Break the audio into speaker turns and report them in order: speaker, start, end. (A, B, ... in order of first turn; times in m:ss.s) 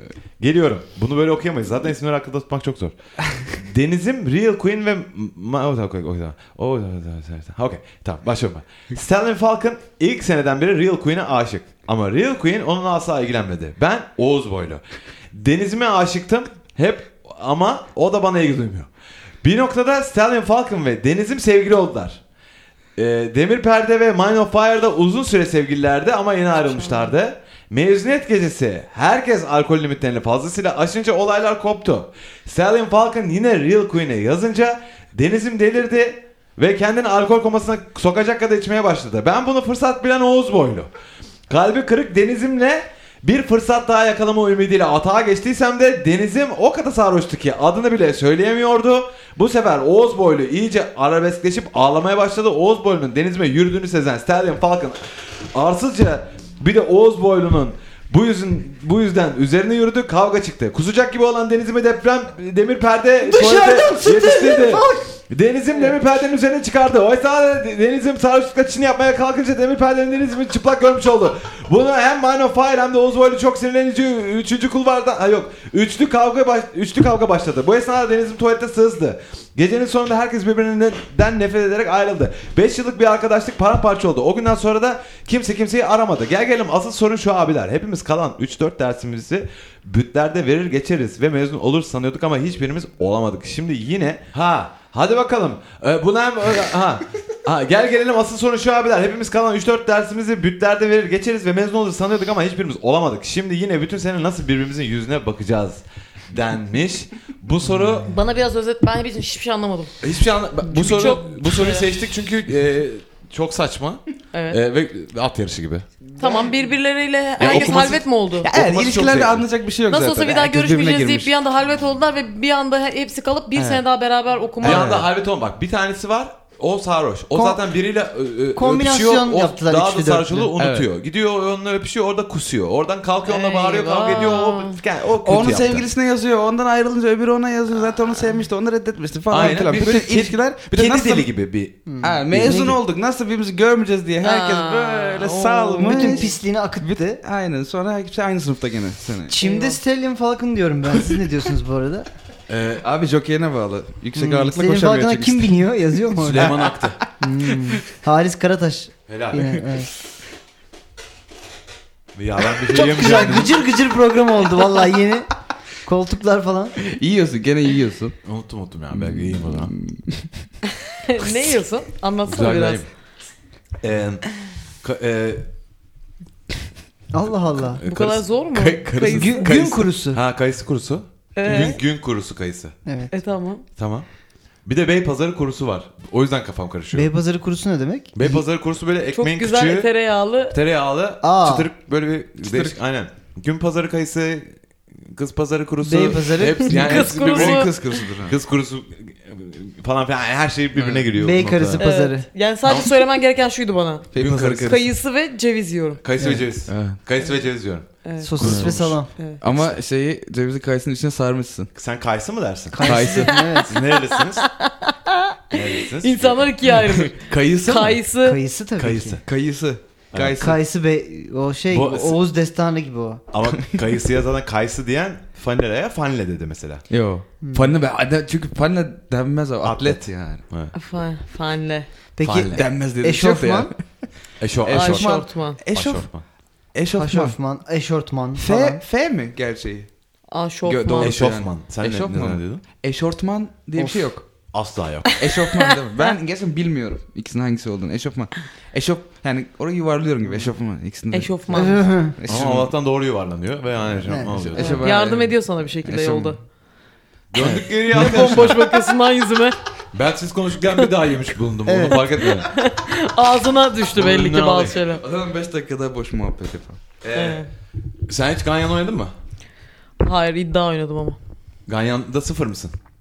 0:00.4-0:18.9 A
0:19.4-0:22.2 A
0:23.0-0:40.9 A
0:26.8-0:27.1 B
0:41.5-0:55.0 A
0:55.5-1:48.1 A
1:03.2-1:05.0 C
1:48.1-1:50.0 B
1:50.0-1:55.9 A
1:50.7-1:52.0 B
1:54.3-1:54.6 B
1:56.1-1:56.5 D
1:56.2-1:58.5 B
1:57.4-1:59.4 A
1:57.4-1:57.7 D
1:58.4-2:01.3 D
1:59.9-2:04.9 B
2:03.6-2:03.8 D
2:04.6-2:05.1 D
2:04.6-2:15.9 A
2:07.3-2:07.6 C
2:08.6-2:10.5 C
2:10.6-2:10.9 D
2:13.3-2:14.8 B
2:15.2-2:21.3 D
2:19.3-2:22.8 A
2:21.9-2:22.8 C
2:22.0-2:29.4 D
2:24.2-2:26.3 B
2:25.8-2:27.2 C
2:29.3-2:32.1 C
2:29.4-2:29.8 B
2:32.5-2:32.8 A
2:32.8-2:35.6 D
2:34.2-2:36.6 C
2:36.2-2:37.0 A
2:36.3-2:36.7 D
2:37.2-2:39.9 C
2:39.1-2:39.5 A
2:42.2-2:43.6 A
2:42.7-2:45.3 C
2:45.8-2:46.8 C
2:46.8-2:48.2 D
2:48.2-2:49.7 A
2:48.9-2:50.5 D
2:51.0-2:52.8 B
2:52.3-2:52.9 A
2:53.8-2:54.3 A
2:54.8-2:55.5 A
2:57.1-2:57.8 C
2:57.7-2:58.3 A
2:57.8-2:59.5 B
2:58.5-2:59.9 D
2:59.1-3:00.2 C
3:00.1-3:02.8 A
3:01.4-3:01.8 B
3:02.9-3:03.1 C
3:03.1-3:03.6 B
3:03.8-3:04.1 A
3:04.6-3:07.1 A
3:06.9-3:08.4 C
3:08.2-3:09.9 A
3:09.1-3:10.6 B
3:10.5-3:21.9 A
3:11.2-3:11.7 C
3:12.4-3:12.8 D
3:15.8-3:17.1 C
3:16.7-3:18.0 B
3:16.7-3:18.4 D
3:20.8-3:21.1 D
3:21.2-3:22.3 C
3:21.8-3:24.1 B
3:22.7-3:22.9 A
3:24.1-3:24.9 D
3:24.2-3:24.8 A
3:24.6-3:26.0 B
3:26.0-3:29.0 A
3:26.2-3:26.5 C
3:26.7-3:27.0 D
3:28.0-3:28.4 B
3:28.2-3:29.1 C
3:28.4-3:28.8 D
3:29.2-3:29.4 B
3:29.4-3:31.7 D
3:31.8-3:33.1 A
3:32.7-3:33.8 C
3:32.8-3:33.5 D
3:33.7-3:34.4 A
3:34.4-3:38.4 B
3:35.5-3:36.5 A
3:36.8-3:38.0 D
3:38.2-3:39.2 C
3:38.8-3:39.2 A
3:39.2-3:40.6 D
3:40.1-3:40.4 A
3:40.4-3:43.2 C
3:41.7-3:42.2 A
3:43.3-3:46.8 A
3:46.9-3:50.4 D
3:47.4-3:47.8 C
3:49.6-3:50.7 A
3:50.7-3:51.9 B
3:52.2-3:53.7 C
3:52.2-3:52.7 A
3:52.6-3:54.1 D
3:54.4-3:55.1 A
3:54.6-3:56.2 D
3:54.7-3:55.6 B
3:55.7-3:56.2 A
3:56.7-3:57.4 D
3:57.0-3:58.8 C
3:58.4-3:59.9 D
4:00.3-4:01.2 B
4:00.6-4:04.3 D
4:01.0-4:02.6 A
4:03.8-4:04.1 C
4:04.5-4:05.2 A
4:05.2-4:12.7 D
4:05.6-4:06.1 B
4:11.1-4:11.9 B
4:11.5-4:12.2 C
4:12.3-4:14.9 A
4:14.0-4:14.5 C
4:14.3-4:16.4 D
4:14.6-4:16.4 B
4:17.3-4:18.7 A
4:17.4-4:17.6 D
4:17.5-4:19.6 B
4:19.9-4:22.5 A
4:21.6-4:22.1 C
4:22.2-4:25.0 B
4:23.9-4:24.8 A
4:25.0-4:26.8 D
4:27.0-4:27.5 A
4:27.1-4:27.5 B
4:28.1-4:29.1 A
4:30.0-4:31.2 B
4:31.7-4:32.7 A